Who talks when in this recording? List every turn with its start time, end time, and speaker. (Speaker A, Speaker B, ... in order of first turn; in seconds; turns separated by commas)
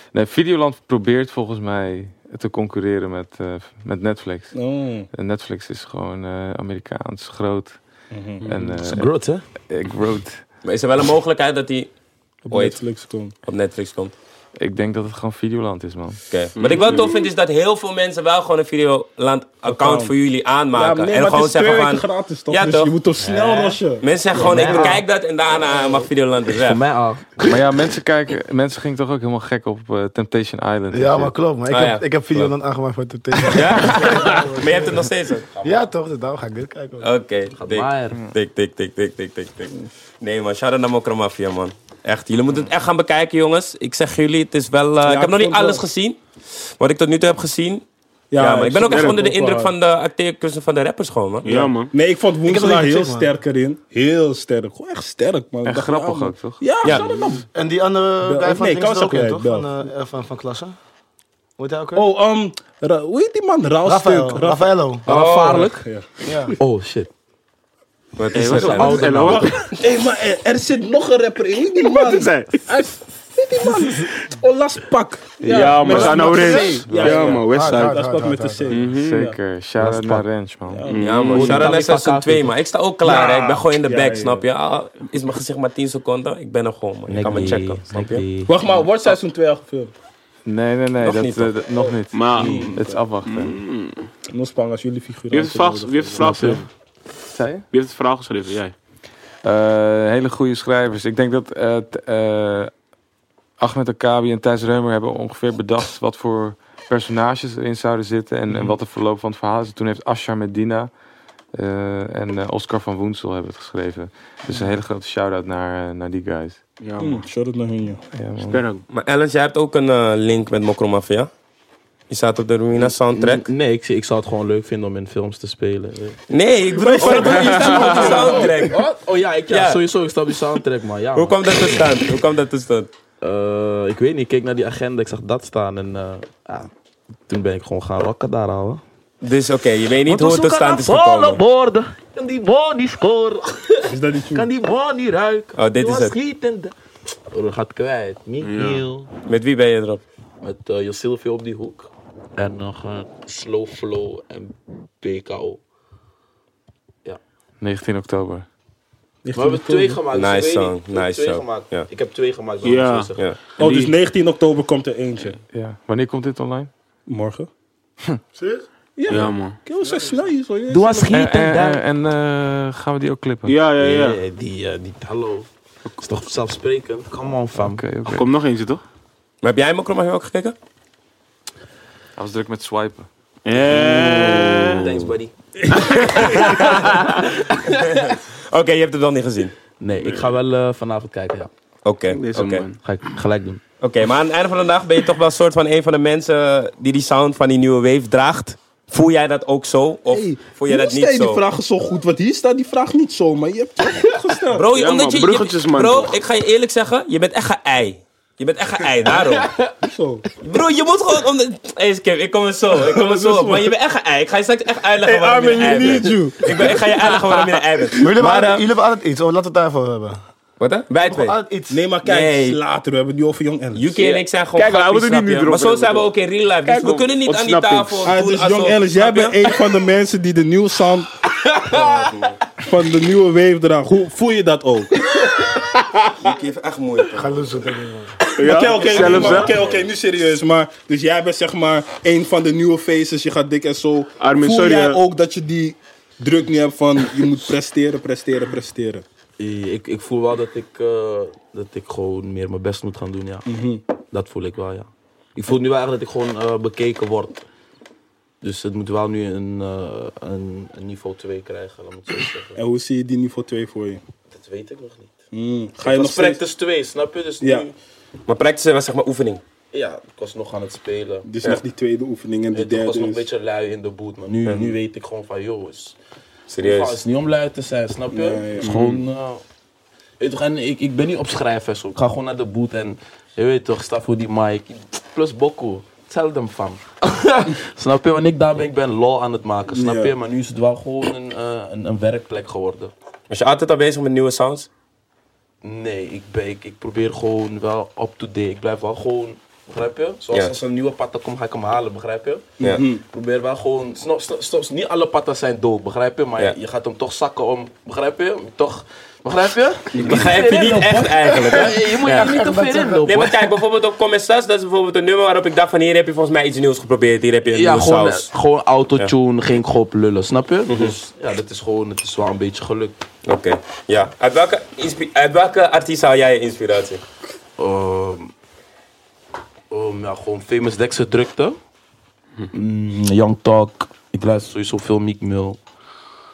Speaker A: 0.1-4.5, Speaker B: 4.5-5.1, Speaker A: 5.1-7.8, Speaker B: 8.1-8.5, Speaker A: 8.5-9.1, Speaker C: 8.8-9.4, Speaker A: 9.7-10.4, Speaker D: 10.6-11.9, Speaker B: 12.4-13.3, Speaker D: 12.5-12.8, Speaker D: 13.4-14.2, Speaker A: 14.6-16.2, Speaker D: 16.3-26.8, Speaker E: 16.6-17.1, Speaker B: 19.6-20.1, Speaker B: 20.7-24.9, Speaker C: 24.3-25.0, Speaker C: 26.5-27.7, Speaker A: 27.4-31.4, Speaker F: 30.9-35.0, Speaker D: 31.7-32.5, Speaker D: 33.5-35.5, Speaker C: 35.5-35.9, Speaker F: 35.6-37.1, Speaker D: 37.0-46.2, Speaker C: 37.6-38.2, Speaker B: 45.0-45.9, Speaker D: 46.8-47.8, Speaker B: 48.3-49.7, Speaker D: 48.4-51.7, Speaker E: 48.9-49.2, Speaker E: 51.5-51.9, Speaker B: 51.5-57.5, Speaker F: 52.5-53.3, Speaker A: 55.6-56.6, Speaker F: 57.5-60.7, Speaker B: 58.2-59.7, Speaker F: 61.6-62.1, Speaker B: 62.0-64.7, Speaker F: 63.9-65.0, Speaker C: 65.0-65.9, Speaker D: 65.1-65.7, Speaker B: 65.5-66.3, Speaker F: 66.2-66.5, Speaker C: 66.6-67.1, Speaker D: 68.2-69.1, Speaker E: 68.3-69.7, Speaker C: 68.5-69.5, Speaker B: 68.6-79.4, Speaker E: 71.8-72.6, Speaker A: 75.4-77.4, Speaker E: 75.5-77.9, Speaker F: 77.5-78.8, Speaker E: 78.7-79.3, Speaker A: 78.9-80.9, Speaker C: 79.8-80.3, Speaker B: 80.7-81.3, Speaker E: 80.9-81.7, Speaker D: 81.0-88.3, Speaker C: 81.2-82.5, Speaker B: 83.0-84.4, Speaker C: 87.1-88.5, Speaker B: 88.5-89.9, Speaker A: 90.5-93.5, Speaker D: 91.0-91.5, Speaker E: 92.1-94.0, Speaker B: 92.3-93.0, Speaker B: 94.3-96.6, Speaker E: 95.3-96.7, Speaker C: 96.2-96.6, Speaker A: 97.3-97.7, Speaker E: 97.7-98.7, Speaker A: 99.4-102.7, Speaker A: 103.6-110.9, Speaker A: 111.5-116.6, Speaker E: 116.8-117.2, Speaker B: 117.0-118.0, Speaker A: 118.1-118.6, Speaker E: 118.5-118.8, Speaker D: 118.9-121.3, Speaker D: 122.1-123.5, Speaker C: 122.8-126.2, Speaker D: 126.3-128.8, Speaker B: 126.7-128.6, Speaker C: 127.0-131.9, Speaker E: 127.2-128.2, Speaker D: 129.5-129.8, Speaker D: 131.2-132.9, Speaker C: 133.2-136.7, Speaker C: 137.3-138.8, Speaker D: 139.2-141.4, Speaker C: 140.1-146.7, Speaker B: 143.9-144.5, Speaker D: 145.6-146.2, Speaker C: 147.3-149.1, Speaker E: 148.4-148.8, Speaker D: 149.3-150.0, Speaker C: 150.4-155.6, Speaker A: 157.6-158.5, Speaker B: 159.2-160.0, Speaker C: 159.3-163.3, Speaker D: 160.1-161.9, Speaker E: 162.6-163.1, Speaker B: 163.6-165.4, Speaker A: 165.5-166.7, Speaker B: 167.1-167.5, Speaker F: 168.3-168.7, Speaker B: 169.0-171.2, Speaker E: 169.1-169.6, Speaker F: 169.8-170.1, Speaker C: 170.7-171.8, Speaker A: 171.1-173.6, Speaker E: 173.5-174.2, Speaker C: 173.8-175.5, Speaker C: 176.0-177.8, Speaker A: 177.6-178.3, Speaker E: 178.1-178.8, Speaker D: 179.4-180.6, Speaker A: 182.2-183.1, Speaker E: 183.4-185.1, Speaker C: 183.7-187.0, Speaker D: 185.7-189.5, Speaker E: 186.4-187.0, Speaker C: 189.8-191.5, Speaker E: 190.0-190.3, Speaker D: 191.8-192.7, Speaker E: 192.1-192.8, Speaker C: 192.8-193.6, Speaker D: 193.8-201.4, Speaker B: 200.1-204.7, Speaker D: 204.5-209.5, Speaker E: 204.8-206.2, Speaker C: 209.1-209.8, Speaker B: 209.8-210.2, Speaker D: 210.4-218.1, Speaker B: 212.7-213.7, Speaker B: 215.0-216.9, Speaker F: 218.0-220.2, Speaker B: 218.0-218.6, Speaker D: 220.6-221.4, Speaker F: 221.0-221.8, Speaker B: 221.7-224.2, Speaker D: 222.0-222.6, Speaker D: 223.8-229.4, Speaker E: 224.6-226.1, Speaker E: 226.7-228.1, Speaker B: 228.1-231.1, Speaker C: 231.4-232.1, Speaker D: 231.7-232.3, Speaker B: 232.6-234.9, Speaker D: 236.1-237.5, Speaker F: 237.2-238.2, Speaker E: 238.4-239.6, Speaker B: 238.4-249.0, Speaker D: 238.9-239.8, Speaker E: 244.2-245.0, Speaker C: 249.4-253.5, Speaker B: 253.5-253.8, Speaker C: 254.1-257.4, Speaker C: 258.4-262.6, Speaker B: 262.6-264.0, Speaker C: 264.3-265.1, Speaker B: 265.3-266.4, Speaker C: 265.8-267.7, Speaker B: 267.4-267.7, Speaker D: 268.3-269.4, Speaker C: 269.7-271.3, Speaker B: 271.2-273.3, Speaker C: 272.5-276.0, Speaker D: 276.5-277.0, Speaker C: 276.6-279.4, Speaker B: 278.1-278.8, Speaker E: 278.6-279.0, Speaker C: 280.2-292.9, Speaker B: 289.7-290.1, Speaker D: 293.3-294.7, Speaker C: 295.6-313.5, Speaker B: 302.6-303.0, Speaker D: 310.0-312.4, Speaker F: 312.1-313.1, Speaker D: 313.0-318.3, Speaker C: 317.5-323.0, Speaker D: 320.7-320.9, Speaker D: 323.2-327.0, Speaker C: 327.6-328.3, Speaker C: 329.7-331.6, Speaker C: 332.5-335.6